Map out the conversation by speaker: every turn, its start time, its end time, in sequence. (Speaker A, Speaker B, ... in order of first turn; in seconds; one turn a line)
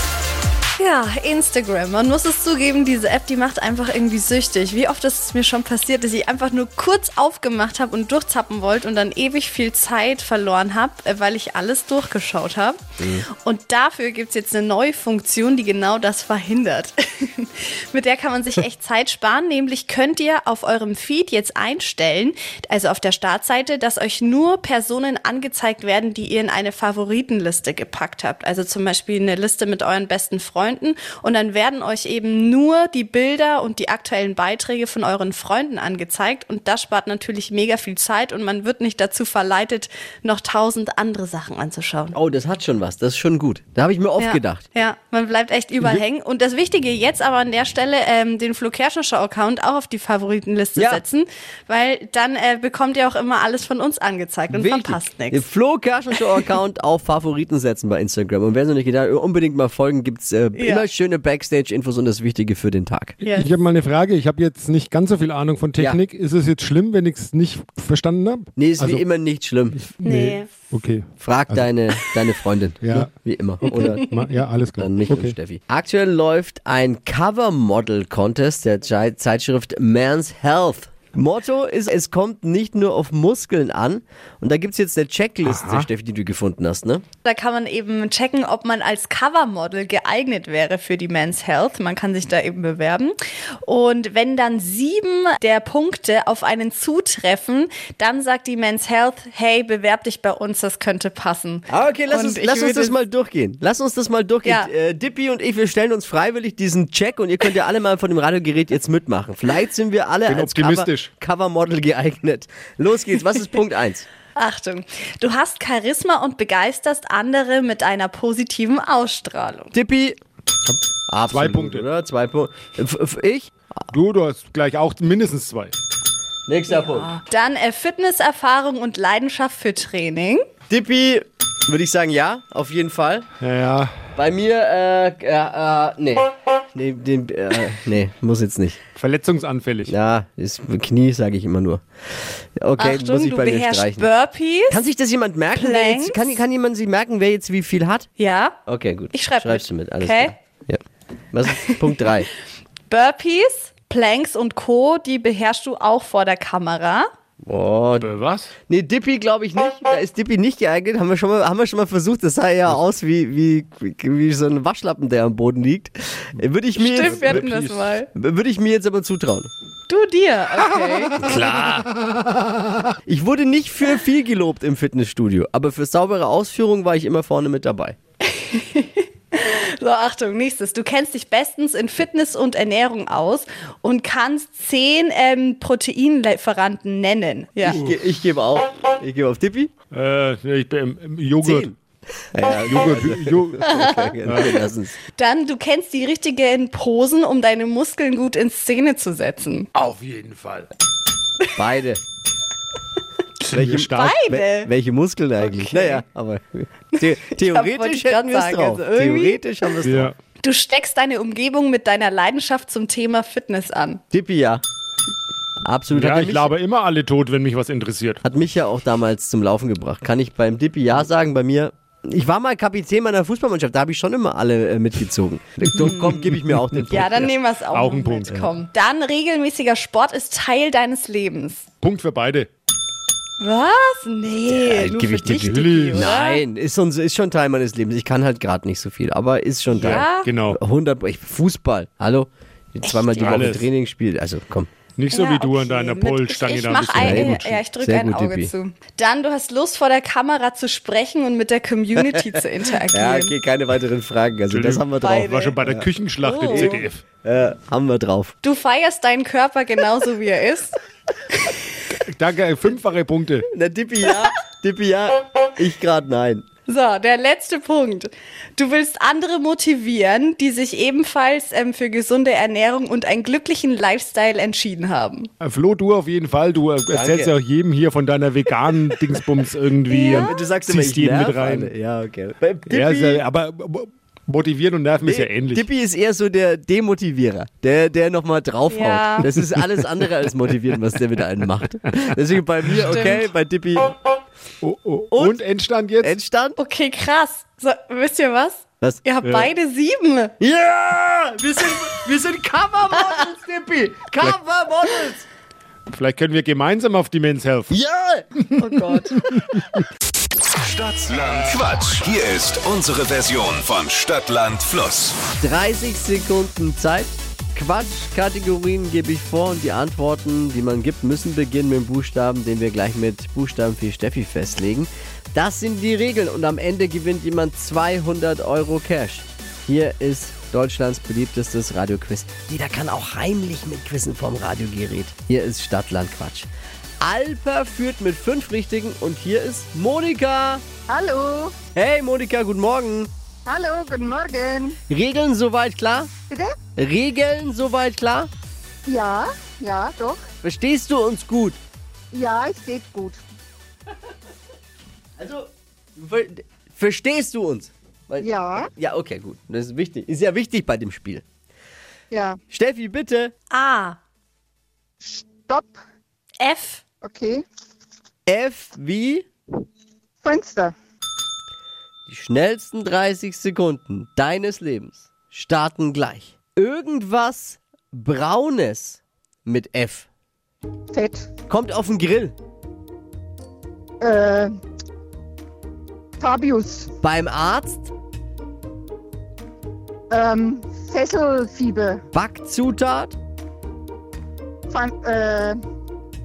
Speaker A: 0.8-12.8
Speaker B: 13.0-13.3
Speaker A: 13.3-42.2
Speaker B: 42.1-44.6
Speaker A: 44.2-55.5
Speaker B: 50.8-51.0
Speaker B: 54.5-63.1
Speaker A: 60.6-60.9
Speaker A: 63.2-63.5
Speaker C: 63.3-69.0
Speaker B: 68.6-69.8
Speaker C: 69.8-71.7
Speaker A: 70.0-70.5
Speaker B: 71.2-74.0
Speaker C: 72.8-73.1
Speaker C: 73.7-75.3
Speaker B: 74.8-87.0
Speaker C: 85.5-85.8
Speaker A: 87.2-103.0
Speaker B: 101.7-114.1
Speaker A: 104.5-104.7
Speaker C: 110.3-111.1
Speaker A: 114.3-119.7
Speaker B: 119.7-120.2
Speaker C: 120.7-121.8
Speaker B: 121.1-123.5
Speaker C: 123.9-125.7
Speaker B: 126.5-127.2
Speaker A: 126.8-130.4
Speaker B: 130.7-133.3
Speaker C: 133.4-133.9
Speaker B: 134.2-138.8
Speaker C: 139.0-139.9
Speaker B: 139.9-141.8
Speaker B: 142.6-144.1
Speaker A: 142.8-144.8
Speaker B: 144.7-148.1
Speaker A: 145.6-146.4
Speaker A: 148.2-148.6
Speaker B: 148.7-150.8
Speaker A: 149.1-150.3
Speaker B: 151.3-152.3
Speaker A: 152.9-157.1
Speaker B: 157.5-158.1
Speaker C: 158.0-158.5
Speaker B: 158.7-167.4
Speaker A: 166.8-168.1
Speaker C: 167.0-167.9
Speaker B: 168.1-169.5
Speaker A: 169.9-171.4
Speaker C: 171.2-172.6
Speaker B: 173.1-178.0
Speaker A: 178.3-187.9
Speaker B: 187.6-189.7
Speaker C: 189.9-191.7
Speaker B: 191.4-191.8
Speaker B: 192.3-195.0
Speaker C: 192.5-193.6
Speaker C: 194.3-194.6
Speaker A: 195.1-199.7
Speaker C: 199.8-200.7
Speaker B: 201.6-202.0
Speaker C: 203.4-204.1
Speaker B: 203.5-210.1
Speaker A: 203.9-204.7
Speaker A: 205.6-206.0
Speaker A: 206.9-209.4
Speaker C: 209.8-210.1
Speaker A: 210.4-214.0
Speaker B: 214.1-214.6
Speaker B: 215.6-216.5
Speaker C: 215.9-218.2
Speaker B: 218.2-227.3
Speaker A: 226.9-231.7
Speaker C: 227.7-228.3
Speaker B: 228.3-228.5
Speaker C: 231.8-232.5
Speaker A: 233.4-236.4
Speaker B: 234.5-244.7
Speaker C: 235.4-236.1
Speaker A: 239.7-240.3
Speaker C: 239.8-240.6
Speaker C: 242.9-243.7
Speaker C: 245.0-247.6
Speaker A: 245.1-253.3
Speaker B: 247.0-248.5
Speaker B: 252.9-255.9
Speaker C: 254.5-257.0
Speaker A: 255.0-255.6
Speaker A: 256.2-256.8
Speaker B: 256.5-258.3
Speaker A: 258.4-260.8
Speaker C: 262.0-263.5
Speaker B: 263.5-266.4
Speaker A: 266.7-275.3
Speaker C: 275.4-281.7
Speaker B: 276.9-277.3
Speaker A: 279.9-280.4
Speaker B: 280.2-283.2
Speaker C: 282.7-285.6
Speaker B: 285.0-293.9
Speaker A: 288.7-289.3
Speaker A: 292.9-293.2
Speaker C: 294.6-296.1
Speaker B: 295.1-295.4
Speaker B: 296.0-296.6
Speaker A: 296.6-300.3
Speaker C: 299.2-299.5
Speaker B: 300.4-305.3
Speaker C: 305.9-307.8
Speaker B: 307.7-309.2
Speaker D: 310.6-315.2
Speaker B: 315.4-336.5
Speaker B: 337.0-340.6
Speaker E: 340.9-341.6
Speaker B: 341.8-343.1
Speaker E: 343.5-344.8
Speaker B: 344.9-346.1
Speaker B: 346.8-348.3
Speaker E: 348.9-350.2
Speaker B: 350.4-351.6
Speaker E: 352.1-353.2
Speaker B: 355.2-361.2
Speaker E: 358.2-358.7
Speaker E: 362.1-362.4
Speaker B: 362.5-363.3
Speaker A: 363.5-364.0
Speaker E: 365.0-365.7
Speaker A: 366.4-366.8
Speaker E: 367.0-367.4
Speaker B: 368.3-369.3
Speaker E: 370.2-370.8
Speaker B: 372.1-380.1
Speaker E: 380.9-381.3
Speaker B: 381.5-382.4
Speaker E: 384.0-384.5
Speaker E: 386.2-386.9
Speaker B: 387.0-387.9
Speaker E: 390.1-392.0
Speaker B: 392.1-393.2
Speaker E: 394.7-395.6